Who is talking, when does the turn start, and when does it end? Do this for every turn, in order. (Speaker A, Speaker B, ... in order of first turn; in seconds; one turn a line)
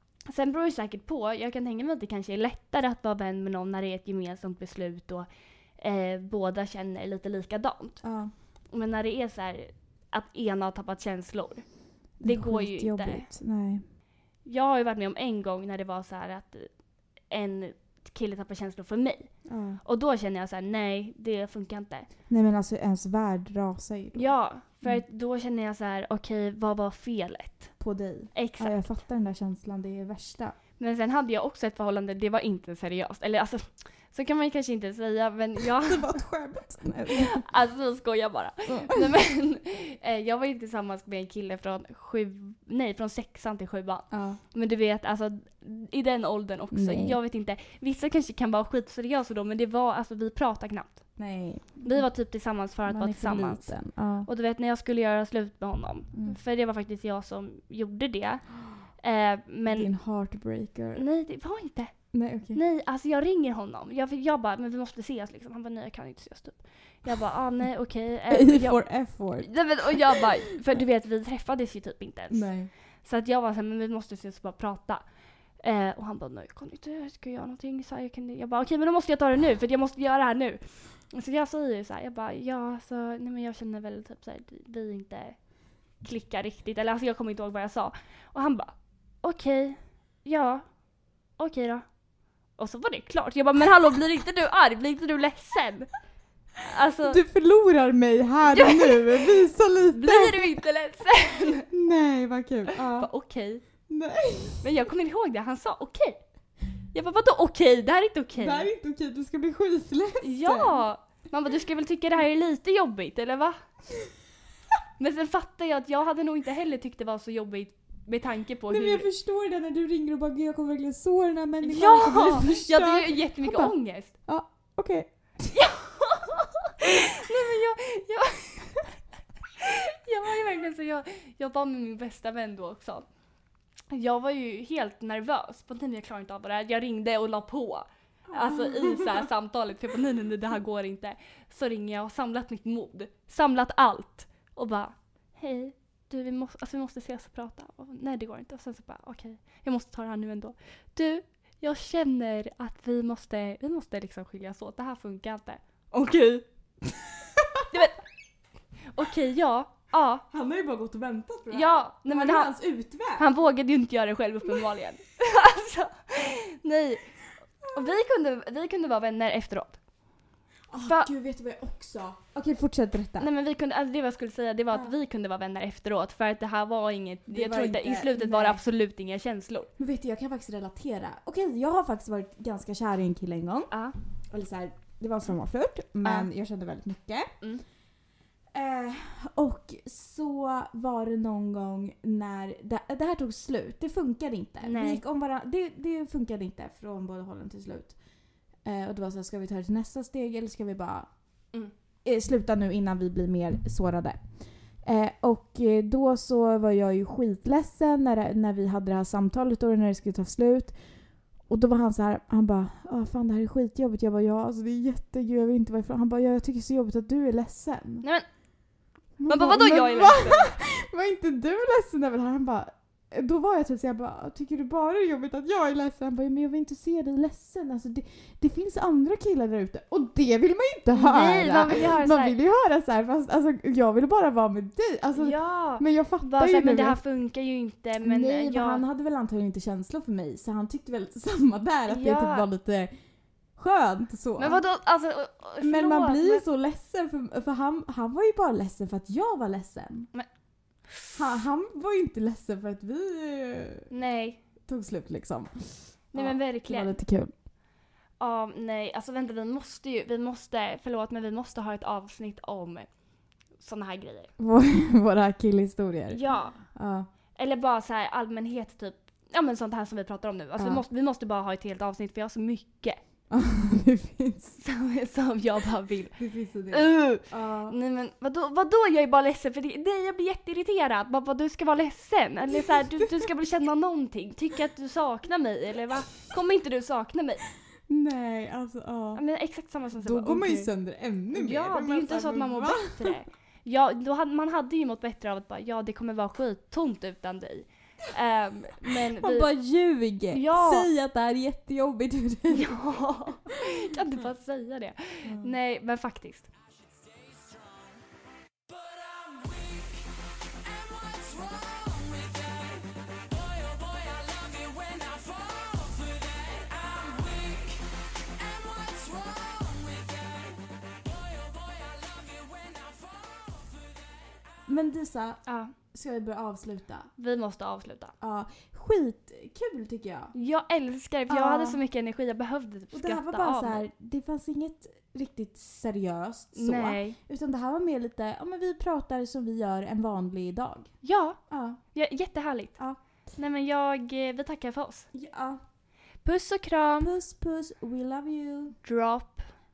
Speaker A: 0.3-5.3
Speaker A: 5.8-8.0
Speaker B: 8.0-8.3
Speaker A: 8.7-11.7
Speaker A: 12.2-13.3
Speaker B: 12.2-13.8
Speaker A: 14.4-16.7
Speaker A: 17.3-19.3
Speaker B: 19.5-19.8
Speaker A: 19.8-22.1
Speaker B: 22.3-24.3
Speaker A: 24.1-27.7
Speaker B: 27.8-30.6
Speaker A: 28.3-28.9
Speaker A: 30.8-36.2
Speaker B: 35.8-37.5
Speaker A: 37.1-51.0
Speaker B: 44.1-44.4
Speaker B: 46.7-47.2
Speaker B: 51.2-52.0
Speaker A: 51.8-53.7
Speaker B: 52.9-54.3
Speaker A: 54.3-58.5
Speaker A: 59.0-59.9
Speaker B: 59.7-61.0
Speaker A: 61.0-62.0
Speaker B: 62.1-62.6
Speaker A: 62.5-68.8
Speaker B: 68.3-70.3
Speaker A: 69.4-72.5
Speaker B: 72.3-72.7
Speaker A: 73.0-75.0
Speaker A: 75.6-85.4
Speaker A: 86.0-90.7
Speaker A: 91.4-91.9
Speaker A: 92.6-95.9
Speaker A: 96.6-97.2
Speaker B: 97.1-100.5
Speaker A: 98.5-99.3
Speaker A: 99.9-101.7
Speaker B: 101.7-103.1
Speaker A: 103.0-103.6
Speaker B: 103.9-104.6
Speaker A: 104.6-106.2
Speaker A: 106.9-108.7
Speaker B: 108.4-110.8
Speaker A: 110.2-113.6
Speaker A: 115.0-119.1
Speaker B: 118.7-123.7
Speaker A: 121.6-124.1
Speaker B: 124.2-125.5
Speaker A: 125.5-128.9
Speaker A: 129.6-133.1
Speaker A: 133.9-156.5
Speaker B: 138.3-139.3
Speaker B: 157.4-157.7
Speaker A: 157.7-158.0
Speaker A: 158.9-160.2
Speaker B: 160.3-163.3
Speaker A: 161.5-162.5
Speaker A: 163.2-167.1
Speaker A: 167.7-169.8
Speaker B: 170.7-173.3
Speaker A: 170.8-171.1
Speaker A: 173.2-179.7
Speaker B: 177.3-178.6
Speaker B: 179.8-183.7
Speaker B: 184.3-187.3
Speaker B: 188.5-198.0
Speaker A: 194.6-195.0
Speaker B: 198.6-201.1
Speaker B: 202.1-204.2
Speaker B: 204.8-210.8
Speaker B: 211.5-218.0
Speaker B: 219.2-237.0
Speaker A: 219.3-220.6
Speaker A: 230.9-232.3
Speaker A: 235.2-238.8
Speaker B: 238.0-242.9
Speaker A: 241.9-242.5
Speaker B: 243.6-244.6
Speaker A: 244.4-246.4
Speaker B: 245.6-250.1
Speaker B: 251.2-253.9
Speaker A: 253.9-254.4
Speaker B: 254.7-257.3
Speaker A: 256.1-256.9
Speaker A: 258.2-262.9
Speaker A: 263.6-264.3
Speaker B: 264.4-267.1
Speaker A: 266.1-266.6
Speaker A: 267.4-273.0
Speaker B: 270.6-270.8
Speaker B: 273.3-274.6
Speaker A: 274.6-276.2
Speaker B: 276.2-277.8
Speaker A: 276.7-287.4
Speaker B: 287.9-289.2
Speaker A: 289.1-290.7
Speaker B: 290.0-293.1
Speaker A: 291.3-299.5
Speaker B: 299.2-302.8
Speaker A: 300.3-300.9
Speaker A: 302.5-306.5
Speaker B: 305.2-305.5
Speaker C: 306.9-308.0
Speaker C: 308.7-324.6
Speaker B: 324.7-325.4
Speaker A: 325.5-325.7
Speaker B: 325.9-327.1
Speaker A: 327.2-328.1
Speaker B: 328.2-330.3
Speaker A: 330.3-333.8
Speaker B: 331.3-331.8
Speaker B: 332.9-340.9
Speaker A: 336.6-337.2
Speaker A: 341.0-341.4
Speaker B: 341.5-341.8
Speaker A: 341.9-342.8
Speaker A: 343.4-345.1
Speaker B: 345.1-345.6
Speaker A: 346.2-347.1
Speaker B: 347.0-348.8
Speaker A: 348.8-349.5